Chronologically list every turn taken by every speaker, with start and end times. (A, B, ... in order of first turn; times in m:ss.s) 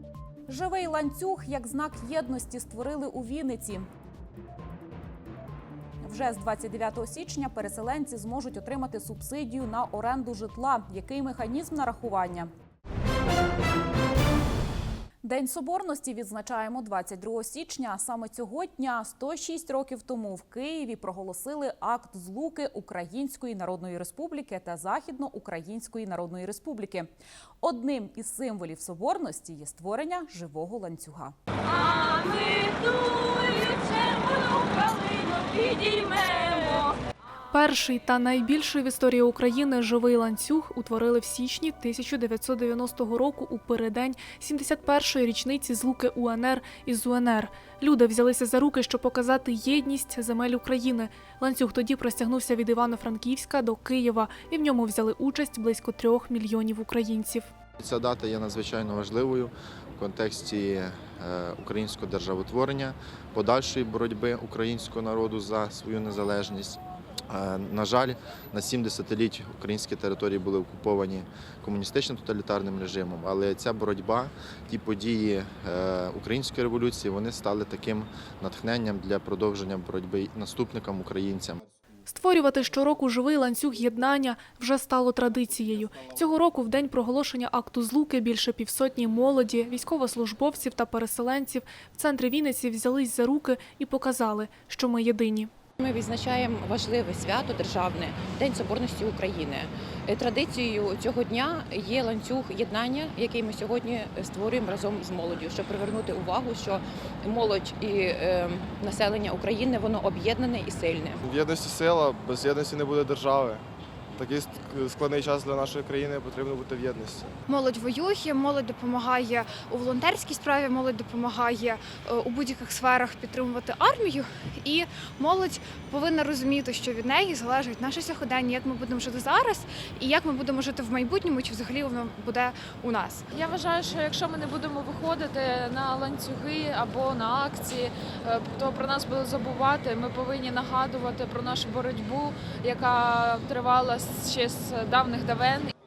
0:00.5-0:03.9 A
0:06.0-0:12.5 A
0:15.2-0:27.1 A
0:27.6-0:31.4 A
0:33.2-0:33.9 B
0:36.0-0:36.5 B
0:37.5-0:57.5 C
0:57.8-1:21.6 D
1:22.1-1:35.5 C
1:35.8-1:51.2 E
1:51.2-1:53.6 F
1:54.2-1:57.2 F
1:57.5-2:13.2 G
2:13.3-2:25.7 B